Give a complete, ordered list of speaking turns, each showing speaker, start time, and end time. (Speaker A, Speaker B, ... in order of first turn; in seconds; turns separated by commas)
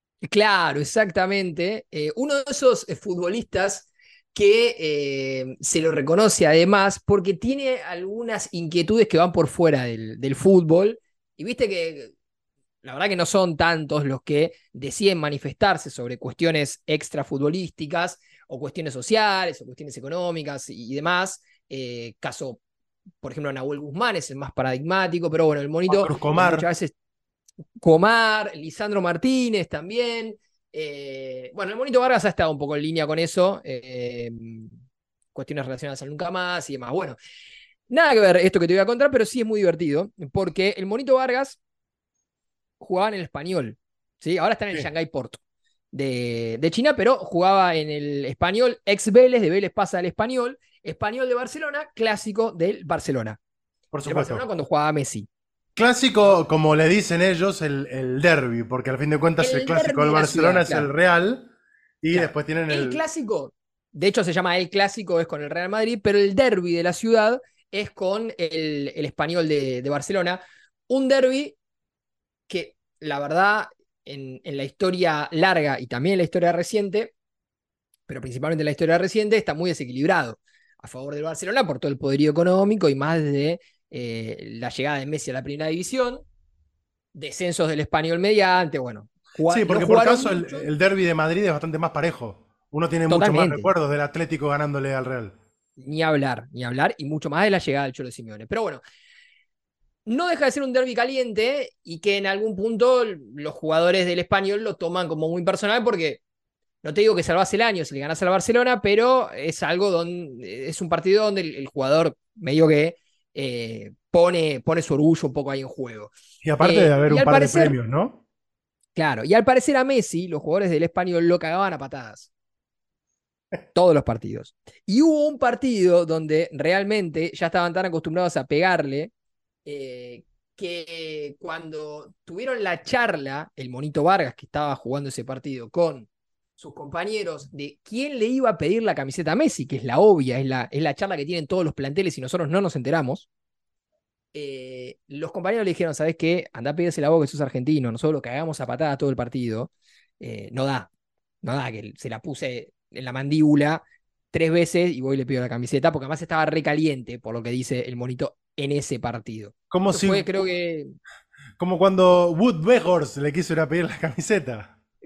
Speaker A: 0.2-12.1, Speaker A: 12.8-22.6, Speaker A: 23.2-26.9, Speaker B: 25.9-26.7, Speaker A: 27.8-34.7, Speaker A: 35.3-37.2, Speaker A: 37.9-41.6, Speaker A: 42.8-45.4, Speaker A: 45.9-53.4, Speaker B: 53.9-54.4, Speaker A: 54.0-55.3, Speaker B: 55.8-61.5, Speaker A: 59.4-60.9, Speaker B: 62.0-63.0, Speaker A: 62.1-71.5, Speaker A: 72.5-77.1, Speaker A: 78.1-86.2, Speaker A: 87.1-90.7, Speaker B: 89.5-95.3, Speaker A: 93.1-93.7, Speaker A: 95.8-98.8, Speaker A: 100.0-106.2, Speaker A: 106.8-117.8, Speaker B: 116.4-118.2, Speaker A: 119.0-122.3, Speaker A: 123.7-129.1, Speaker A: 129.6-136.1, Speaker A: 136.6-143.3, Speaker A: 144.3-150.9, Speaker A: 151.4-160.9, Speaker B: 159.7-160.5, Speaker B: 161.6-164.7